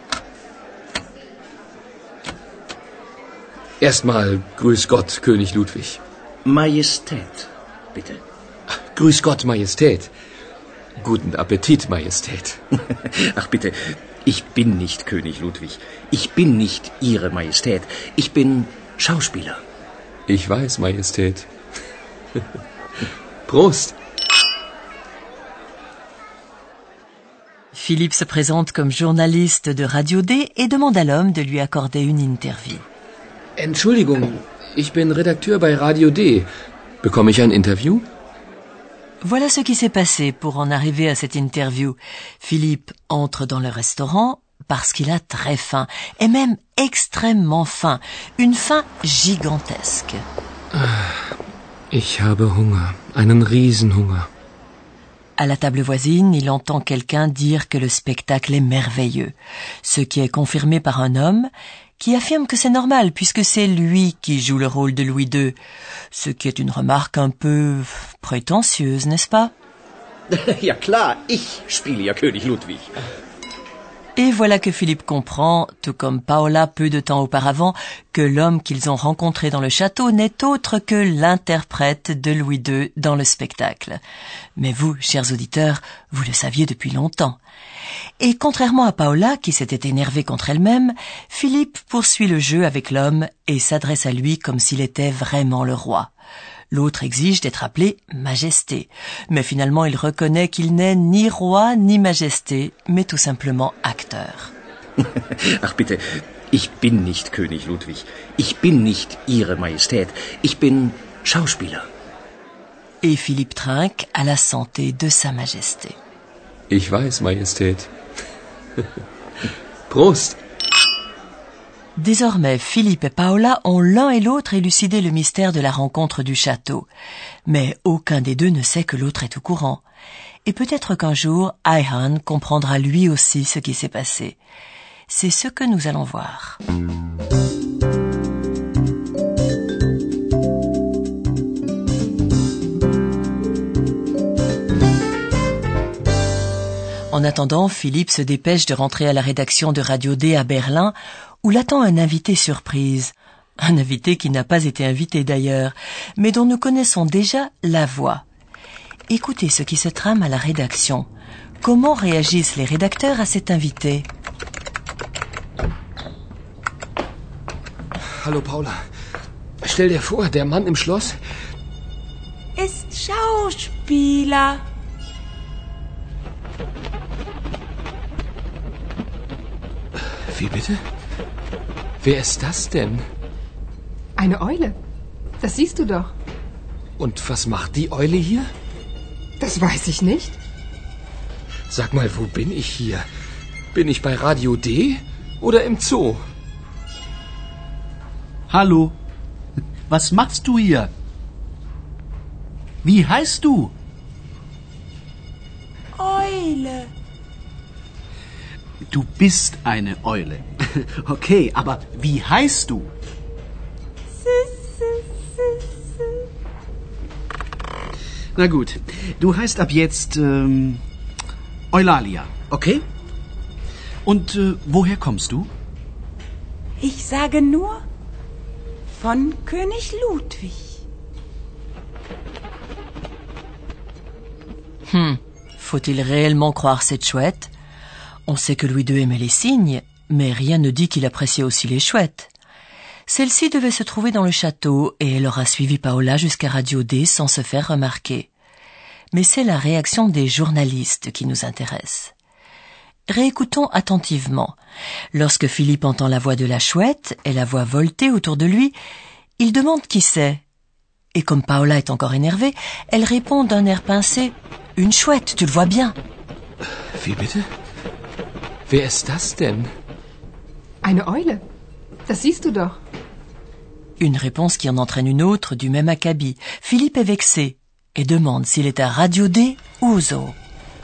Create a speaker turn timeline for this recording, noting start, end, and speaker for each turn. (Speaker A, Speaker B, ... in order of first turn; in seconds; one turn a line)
Speaker A: 3.8-6.0
Speaker B: 6.5-7.4
Speaker B: 7.9-8.2
Speaker A: 8.9-10.1
Speaker A: 11.0-12.6
Speaker B: 13.3-19.6
Speaker A: 20.3-21.5
Speaker A: 23.5-23.9
Speaker C: 27.7-32.9
Speaker A: 33.6-36.5
Speaker A: 37.0-38.0
Speaker C: 39.2-50.2
Speaker A: 50.7-51.2
Speaker A: 51.9-54.3
Speaker C: 55.4-65.5
Speaker C: 66.1-69.5
Speaker B: 70.4-72.8
Speaker C: 74.2-84.0
Speaker C: 84.5-87.4
Speaker C: 88.2-96.1
Speaker C: 96.7-104.5
Speaker B: 105.6-106.0
Speaker B: 106.5-111.9
Speaker C: 113.0-116.0
Speaker A: 116.7-117.9
Speaker A: 119.9-120.4
Speaker C: 122.0-126.9
Speaker C: 127.5-129.8
Speaker C: 130.4-134.4
Speaker C: 135.1-136.6
Speaker C: 147.1-158.2
Speaker C: 159.1-161.1
Speaker C: 161.6-164.1
Speaker A: 168.2-168.8
Speaker A: 169.6-171.1
Speaker D: 172.6-174.6
Speaker A: 180.3-180.8
Speaker A: 182.0-183.0
Speaker E: 184.2-184.8
Speaker E: 185.4-186.1
Speaker A: 187.0-188.4
Speaker E: 189.4-190.4
Speaker A: 191.7-193.0
Speaker A: 193.7-196.2
Speaker F: 198.5-198.9
Speaker F: 199.9-200.9
Speaker F: 202.8-203.7
Speaker D: 205.9-206.9
Speaker F: 208.9-212.9
Speaker D: 214.2-216.2
Speaker F: 218.3-220.8
Speaker F: 221.7-222.8
Speaker F: 224.1-225.5
Speaker D: 226.8-227.8
Speaker D: 229.0-230.6
Speaker C: 234.9-237.5
Speaker C: 238.3-242.3
Speaker C: 243.1-248.3
Speaker C: 249.1-252.1
Speaker C: 253.1-254.6
Speaker C: 255.1-258.7
Speaker C: 259.4-260.4
Speaker C: 261.1-265.9
Speaker A: 266.9-267.4
Speaker A: 268.7-269.7
Speaker E: 270.8-271.4
Speaker E: 272.1-272.8
Speaker C: 274.0-280.4